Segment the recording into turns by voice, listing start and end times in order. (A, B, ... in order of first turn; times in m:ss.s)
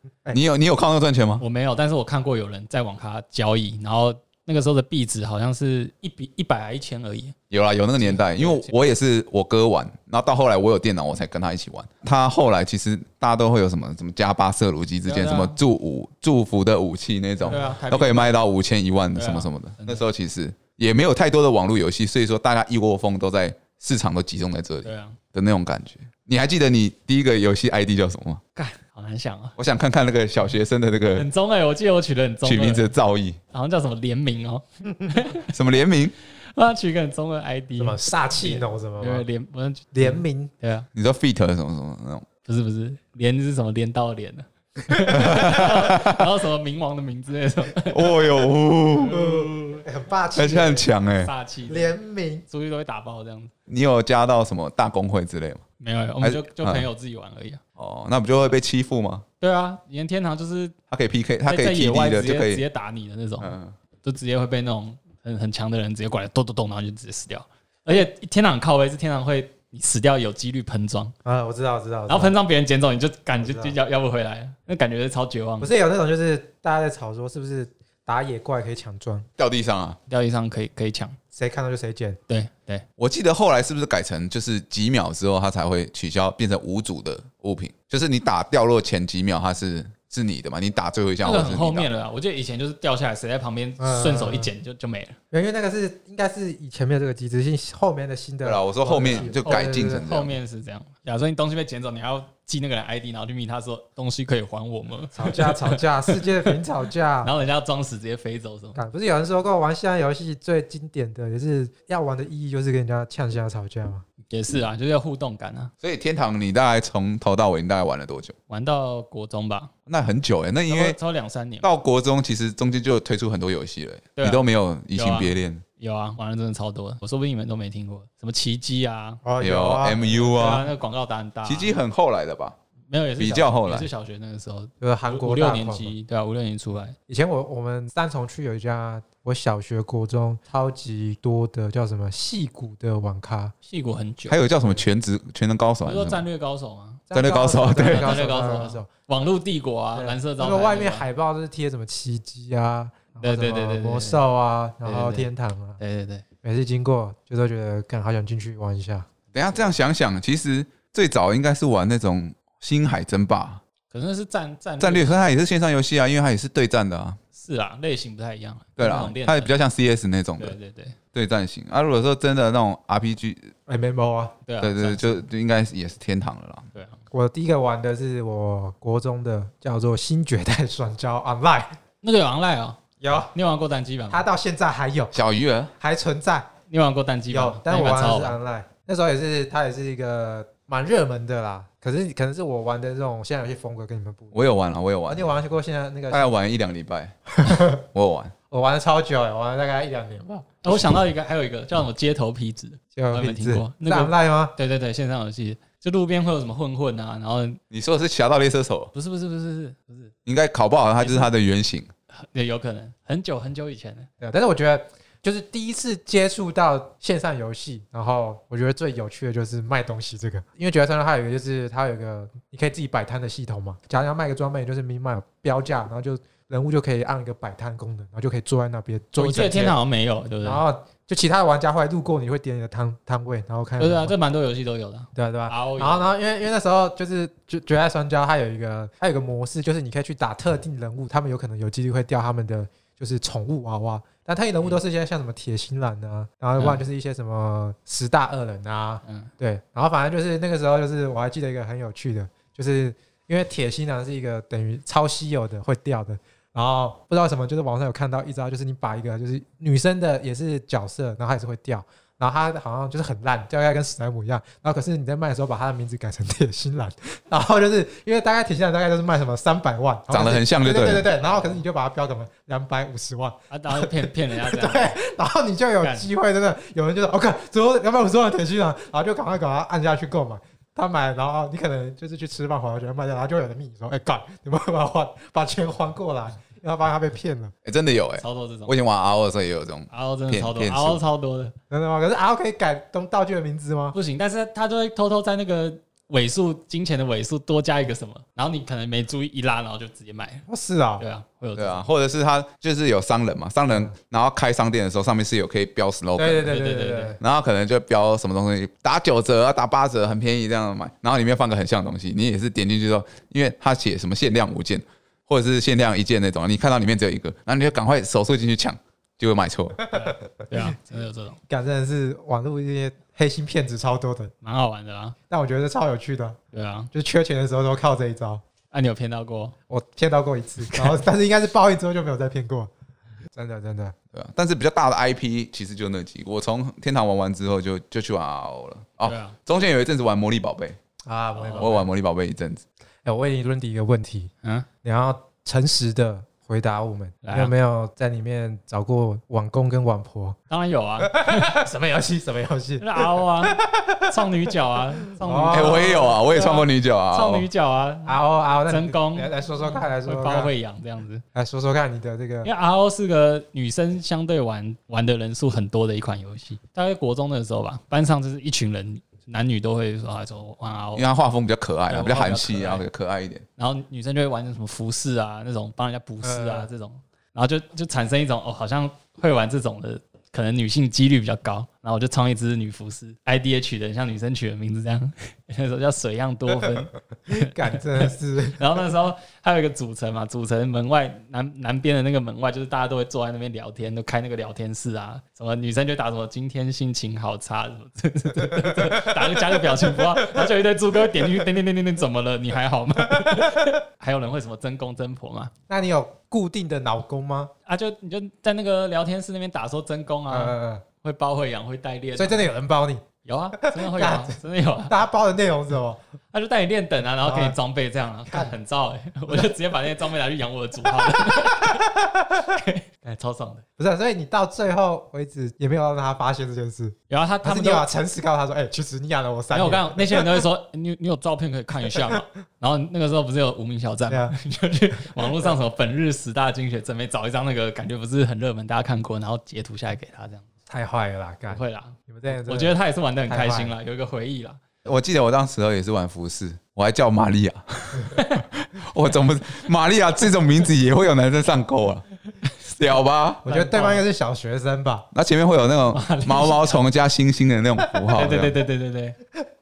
0:00.3-0:01.4 A
0:01.4-0:07.4 B
0:07.5-0:28.4 A
0:08.0-0:08.7 B
0:15.0-0:15.6 B
0:17.4-0:17.8 C
0:17.4-0:18.4 B
0:19.1-0:20.0 B
0:24.8-0:25.2 B
0:28.5-0:29.5 B
0:29.6-0:31.3 A
0:31.2-0:32.9 B
0:32.4-0:33.4 A
0:33.5-0:35.5 B
0:35.5-0:36.1 A
0:36.4-0:40.9 B
0:37.8-0:39.2 C
0:39.9-0:40.5 C
0:40.9-0:42.2 A
0:42.4-0:48.3 B
0:45.1-0:46.2 A
0:47.9-0:49.5 A
0:49.0-0:49.8 B
0:49.1-0:50.8 C
0:50.3-0:51.3 A
0:51.2-0:51.9 B
0:51.7-0:52.4 C
0:52.5-0:53.5 B
0:53.7-0:55.6 A
0:55.8-0:57.6 B
0:56.2-0:56.8 A
0:57.8-0:59.2 A
0:59.4-1:00.7 B
1:00.9-1:02.6 A
1:01.4-1:11.1 B
1:03.4-1:03.7 A
1:11.2-1:12.3 C
1:12.1-1:15.7 B
1:13.4-1:13.7 C
1:15.6-1:19.3 C
1:19.4-1:20.0 A
1:20.1-1:21.2 B
1:21.3-1:22.2 C
1:22.3-1:22.8 B
1:23.0-1:31.9 A
1:31.2-1:35.2 B
1:33.8-1:34.5 C
1:35.3-1:40.0 C
1:38.4-1:40.4 A
1:39.1-1:46.6 B
1:45.1-1:47.3 C
1:47.2-1:48.8 B
1:48.7-1:54.0 C
1:54.3-1:55.7 B
1:55.8-1:58.3 A
1:58.5-1:59.7 B
1:59.9-2:01.0 A
2:00.7-2:01.7 B
2:01.6-2:05.6 A
2:04.2-2:09.2 B
2:09.2-2:10.6 C
2:09.4-2:10.6 A
2:10.3-2:11.8 B
2:11.4-2:12.6 A
2:12.9-2:16.9 B
2:13.2-2:13.9 A
2:14.8-2:15.9 C
2:17.1-2:23.5 C
2:23.6-2:24.4 B
2:24.3-2:26.2 A
2:25.8-2:27.0 B
2:27.1-2:28.9 C
2:27.1-2:28.1 A
2:27.7-2:31.0 B
2:29.9-2:35.8 C
2:33.2-2:34.2 B
2:34.8-2:36.2 B
2:36.4-2:39.1 C
2:39.3-2:43.6 A
2:43.9-2:45.3 B
2:44.8-2:47.2 A
2:47.3-2:49.5 B
2:48.8-2:50.6 A
2:50.4-2:51.0 B
2:51.1-2:53.5 A
2:53.7-2:54.3 C
2:54.4-2:55.2 B
2:54.6-2:56.7 A
2:56.7-2:57.0 B
2:57.1-3:01.8 C
3:02.0-3:02.8 B
3:03.0-3:03.3 C
3:03.3-3:04.2 B
3:04.1-3:05.1 C
3:05.1-3:05.7 A
3:05.8-3:06.5 C
3:06.7-3:08.4 B
3:07.3-3:14.3 C
3:14.3-3:15.3 A
3:15.1-3:16.3 C
3:16.1-3:18.3 A
3:17.3-3:17.8 C
3:18.5-3:20.5 C
3:20.6-3:27.6 B
3:23.0-3:24.5 C
3:27.7-3:28.9 A
3:28.9-3:30.1 B
3:30.2-3:31.9 A
3:31.0-3:31.3 B
3:32.1-3:34.1 B
3:34.2-3:49.8 C
3:49.2-3:50.6 B
3:50.4-3:54.1 C
3:53.8-3:56.1 B
3:55.1-4:47.5 C
4:06.6-4:06.8 B
4:09.0-4:09.3 B
4:30.1-4:31.1 A
4:31.2-4:31.6 B
4:33.5-4:35.0 B
4:35.8-4:36.1 B
4:47.6-4:51.0 A
4:48.1-4:48.7 B
4:49.9-4:51.5 B
4:51.7-4:53.9 C
4:53.9-5:00.4 B
5:00.5-5:01.0 C
5:01.0-5:01.8 B
5:01.6-5:06.5 A
5:06.2-5:07.2 C
5:06.4-5:07.2 B
5:07.2-5:19.8 A
5:19.9-5:21.4 B
5:21.5-5:24.3 C
5:24.4-5:25.2 B
5:25.3-5:26.4 C
5:26.5-5:26.9 B
5:26.9-5:28.4 C
5:28.7-5:29.6 B
5:29.7-5:32.7 C
5:30.7-5:31.0 B
5:33.3-5:33.9 C
5:34.1-5:40.8 A
5:39.0-5:39.4 B
5:41.0-5:41.9 C
5:41.3-5:41.7 B
5:41.6-5:42.6 A
5:43.0-5:44.3 C
5:44.8-5:50.4 C
5:47.2-5:47.5 B
5:50.5-5:51.6 B
5:51.0-5:54.1 C
5:52.8-6:01.2 B
5:55.1-5:56.2 C
5:55.5-5:57.4 A
5:58.0-6:00.5 C
6:01.3-6:02.5 C
6:02.4-6:11.0 B
6:10.9-6:13.4 A
6:11.9-6:12.8 B
6:13.6-6:45.5 B
6:16.2-6:16.7 C
6:27.3-6:28.6 C
6:38.6-6:40.1 C
6:43.1-6:43.6 C
6:45.7-6:47.5 C
6:47.6-6:52.5 B
6:50.3-6:50.8 C
6:52.2-6:53.0 C
6:53.2-6:55.0 B
6:53.6-6:54.3 C
6:54.9-6:56.0 C
6:56.3-7:03.6 B
6:57.2-6:57.6 C
7:01.1-7:02.0 C
7:03.8-7:10.5 C
7:07.1-7:07.9 B
7:09.5-7:20.4 B
7:11.9-7:12.2 C
7:14.1-7:14.3 C
7:15.2-7:15.5 C
7:20.7-7:22.8 C
7:21.5-7:24.6 B
7:23.3-7:23.7 C
7:24.8-7:32.0 A
7:28.1-7:28.4 B
7:32.7-7:33.4 A
7:33.4-7:35.1 C
7:33.4-7:34.0 B
7:35.1-7:38.5 A
7:35.9-7:36.8 B
7:38.1-7:39.2 B